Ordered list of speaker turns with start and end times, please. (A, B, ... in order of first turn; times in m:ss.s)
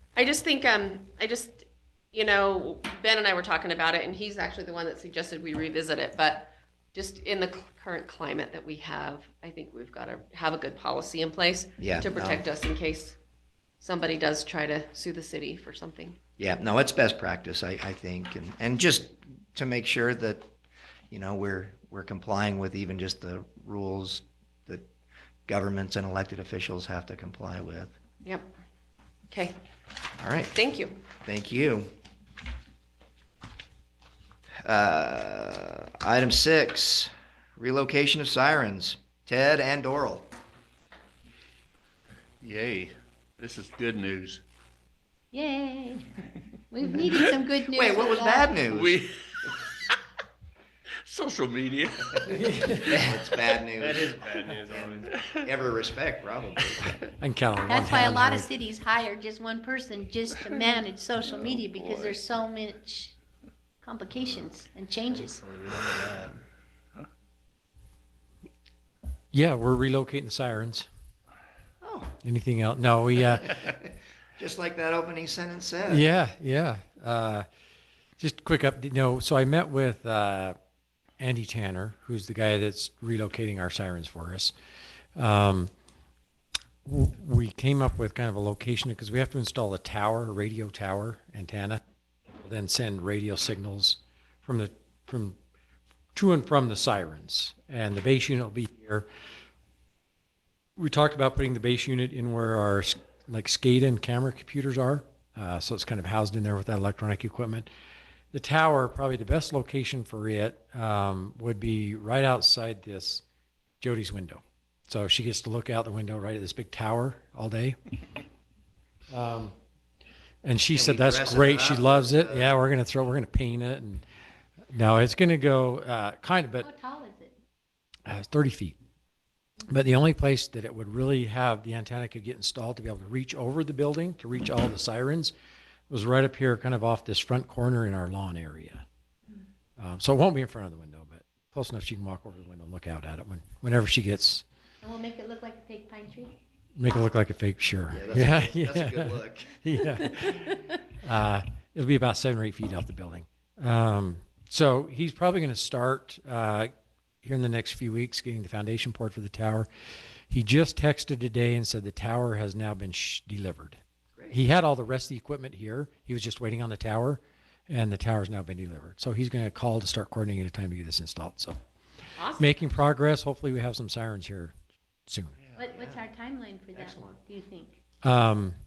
0:00.2-0:13.2 A
0:11.8-0:12.4 B
0:13.8-0:16.2 A
0:16.4-0:20.5 B
0:21.1-0:24.9 B
0:25.5-0:27.9 B
0:28.2-0:28.5 A
0:29.3-0:29.6 A
0:30.2-0:30.6 B
0:30.5-0:31.0 A
0:31.2-0:31.9 B
0:34.6-0:40.3 B
0:42.4-0:44.4 C
0:45.3-0:46.2 D
0:46.7-0:48.6 D
0:47.7-0:49.0 B
0:48.6-0:49.6 C
0:51.0-0:53.1 C
0:52.4-0:52.6 E
0:52.9-0:54.1 B
0:53.8-0:55.1 E
0:54.6-0:56.9 B
0:55.1-0:55.4 C
0:57.2-0:58.5 F
0:57.7-1:03.1 D
1:01.2-1:02.2 C
1:03.8-1:05.4 D
1:05.1-1:06.4 E
1:09.3-1:10.9 F
1:11.8-1:12.1 B
1:12.2-1:13.6 F
1:14.4-1:16.0 B
1:15.9-1:17.4 F
1:18.2-1:20.6 F
1:21.2-1:24.5 F
1:25.2-1:25.7 F
1:26.8-1:31.8 F
1:32.4-1:35.4 F
1:36.1-1:39.1 F
1:40.8-1:47.7 F
1:48.3-1:53.2 F
1:53.8-1:57.8 F
1:59.1-1:59.5 F
2:00.4-2:04.0 F
2:00.7-2:02.6 B
2:04.7-2:06.7 F
2:06.6-2:07.4 D
2:08.0-2:08.8 F
2:09.7-2:15.3 F
2:15.9-2:18.8 F
2:19.8-2:24.4 F
2:24.8-2:26.4 D
2:26.8-2:36.7 F
2:27.9-2:29.6 B
2:37.2-2:39.7 F
2:40.3-2:43.8 F
2:44.3-2:51.6 F
2:52.2-2:52.6 A
2:52.4-2:54.5 F
2:55.1-2:55.4 F
2:55.4-2:55.7 C
2:55.6-2:57.8 D
2:55.7-2:56.0 B
2:56.7-2:57.2 B
2:58.0-2:58.6 F